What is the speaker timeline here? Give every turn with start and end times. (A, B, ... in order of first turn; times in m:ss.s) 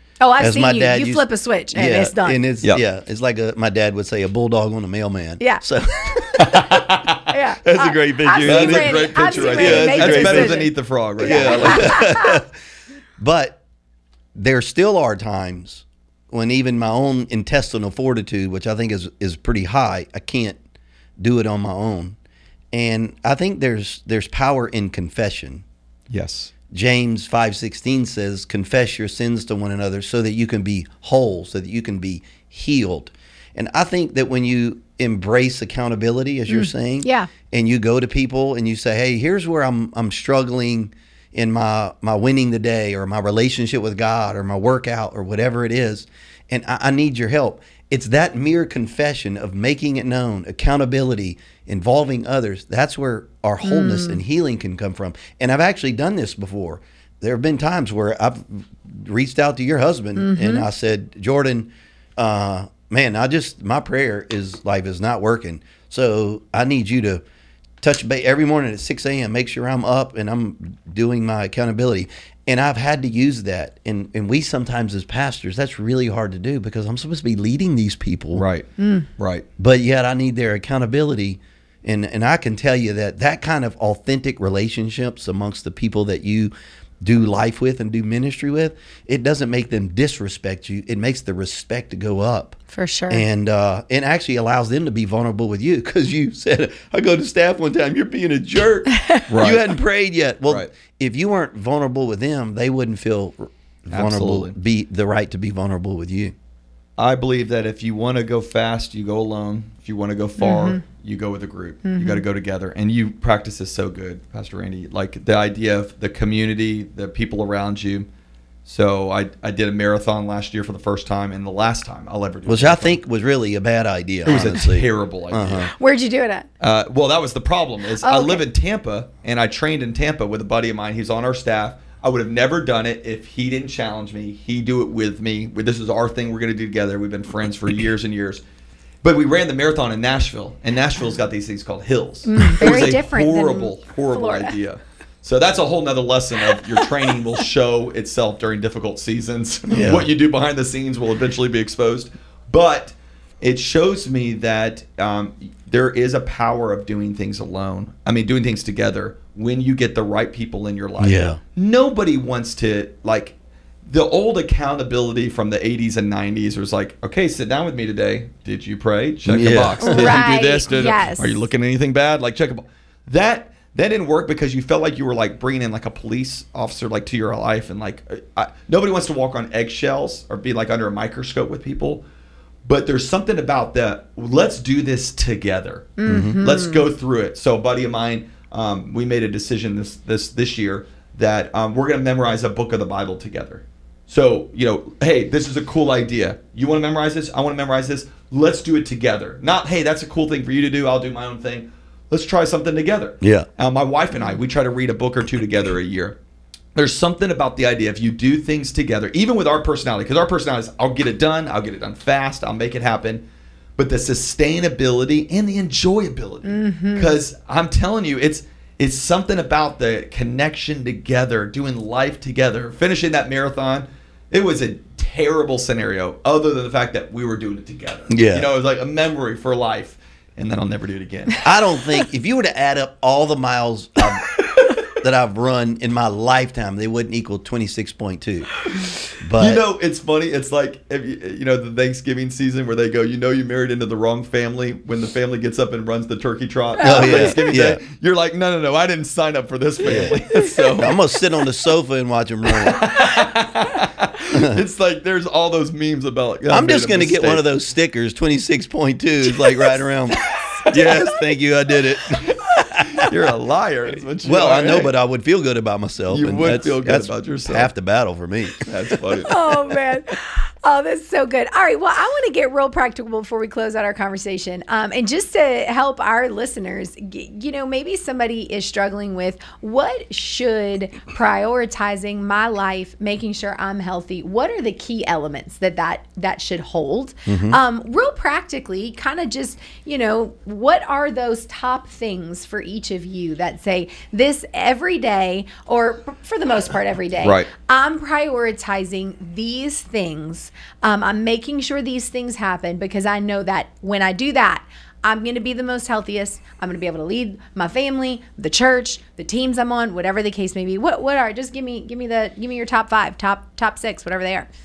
0:00.2-0:02.4 A
0:00.4-0:06.8 B
0:05.4-0:06.4 A
0:06.4-0:07.2 C
0:07.3-0:12.4 A
0:07.6-0:10.7 B
0:08.4-0:12.0 C
0:11.2-0:12.5 B
0:13.2-0:13.6 B
0:14.3-0:20.6 B
0:21.2-0:22.2 B
0:22.7-0:25.6 B
0:26.1-0:26.5 C
0:26.7-1:07.2 B
0:36.5-0:37.3 A
0:53.6-0:54.2 A
1:00.2-1:00.7 A
1:07.8-1:18.4 B
1:18.3-1:18.7 C
1:18.8-1:19.1 A
1:19.2-1:19.4 C
1:19.6-1:26.5 B
1:27.0-1:46.3 B
1:32.7-1:33.2 A
1:38.9-1:39.2 A
1:39.3-1:39.6 C
1:43.9-1:44.5 C
1:47.0-1:58.1 C
1:50.4-1:50.8 A
1:51.8-1:52.2 A
1:58.6-2:03.0 C
2:02.4-2:05.7 B
2:04.2-2:05.7 C
2:05.8-2:06.5 A
2:06.6-2:18.4 C
2:08.0-2:08.4 A
2:19.0-2:43.3 C
2:22.2-2:24.5 A
2:29.7-2:30.1 B
2:41.0-2:41.4 B
2:43.9-3:02.0 C
2:49.2-2:50.2 B
2:49.8-2:51.4 A
3:02.6-3:26.2 C
3:06.0-3:06.8 A
3:06.0-3:06.4 B
3:23.2-3:23.5 B
3:26.7-3:33.2 C
3:33.8-3:51.4 C
3:36.4-3:37.1 A
3:48.1-3:48.5 B
3:51.4-3:58.6 B
3:59.2-3:59.6 B
3:59.3-4:11.0 C
4:06.8-4:07.4 A
4:06.8-4:07.8 B
4:09.8-4:10.2 B
4:10.1-4:10.7 A
4:10.8-4:12.8 B
4:12.6-4:17.4 C
4:14.3-4:14.6 B
4:16.5-4:23.1 B
4:19.6-4:20.6 A
4:20.7-4:21.1 C
4:22.8-4:24.9 C
4:24.2-4:29.2 B
4:26.1-4:27.7 C
4:28.6-4:29.4 C
4:29.3-5:14.5 A
4:47.3-4:47.6 B
4:57.2-4:57.5 C